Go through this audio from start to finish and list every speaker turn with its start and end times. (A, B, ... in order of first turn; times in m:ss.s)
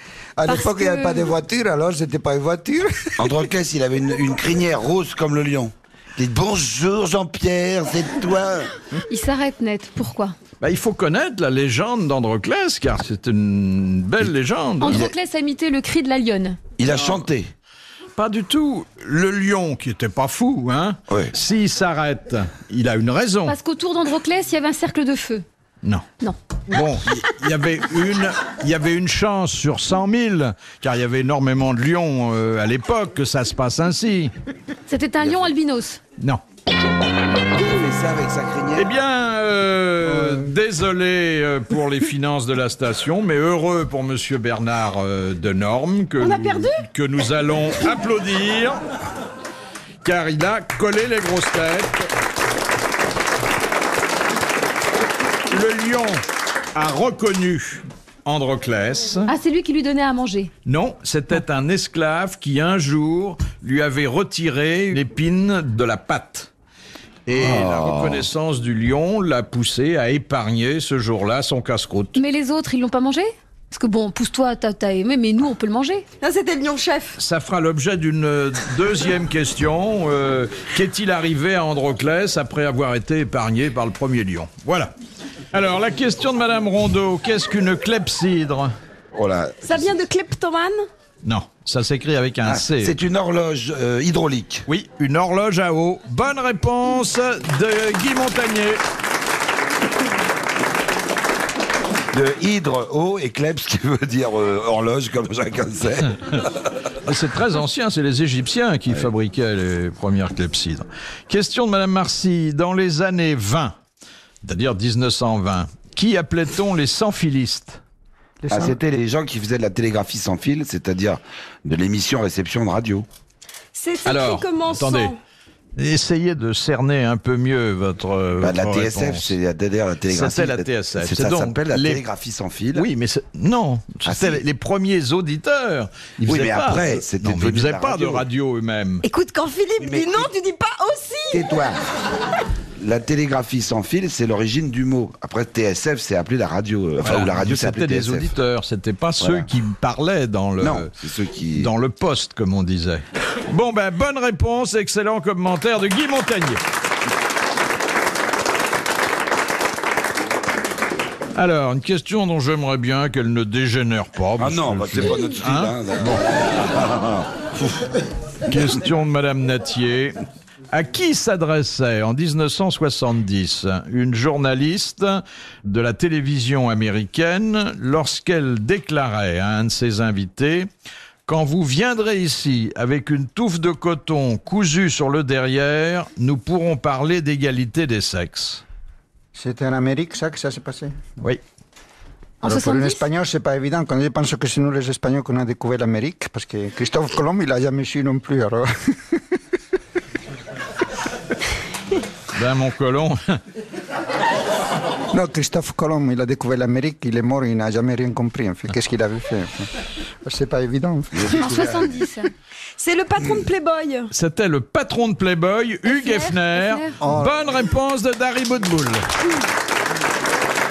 0:00.4-0:03.3 A
0:00.5-0:01.3 B
0:03.2-0:08.7 C
0:09.1-0:10.4 B
0:10.6-0:15.0 D
0:14.8-0:16.6 B
0:14.9-0:15.1 C
0:16.8-0:17.5 C
0:18.2-0:23.6 D
0:23.5-0:25.4 B
0:26.7-0:34.3 D
0:34.9-0:36.0 B
0:35.2-0:35.5 C
0:37.5-0:38.9 C
0:38.8-0:48.8 D
0:46.2-0:46.8 E
0:50.0-0:52.1 D
0:55.5-0:56.2 D
0:56.8-0:59.3 D
0:59.3-1:00.5 B
1:00.7-1:06.5 D
1:07.3-1:12.2 D
1:07.3-1:08.3 C
1:12.2-1:16.0 B
1:16.2-1:17.2 E
1:17.2-1:24.9 D
1:25.5-1:28.7 D
1:29.2-1:30.0 C
1:29.6-1:30.8 E
1:31.2-1:33.0 D
1:32.5-1:34.7 C
1:34.7-1:38.8 D
1:42.1-1:46.5 C
1:46.2-1:46.4 D
1:47.0-1:53.8 D
1:54.4-1:57.8 D
1:58.4-1:58.8 A
1:58.5-2:03.1 C
2:03.7-2:05.2 E
2:04.0-2:05.1 D
2:05.8-2:09.3 D
2:08.4-2:12.9 C
2:10.1-2:12.0 D
2:12.8-2:19.0 D
2:14.1-2:14.4 C
2:16.3-2:18.2 C
2:19.0-2:21.4 E
2:19.8-2:20.3 C
2:21.3-2:21.9 C
2:22.8-2:28.3 C
2:27.0-2:30.9 D
2:29.2-2:29.5 C
2:30.6-2:31.7 C
2:31.6-2:36.6 D
2:41.4-2:46.2 D
2:44.4-2:47.3 C
2:48.5-2:50.2 D
2:50.7-3:00.7 D
3:01.3-3:08.6 D
3:09.3-3:11.0 A
3:12.4-3:19.2 A
3:12.4-3:13.0 B
3:22.3-3:23.4 D
3:25.1-3:29.7 A
3:30.2-3:32.0 A
3:31.1-3:31.9 C
3:31.4-3:32.3 B
3:32.8-3:34.1 E
3:34.1-3:39.1 D
3:35.9-3:37.0 B
3:37.0-3:37.4 A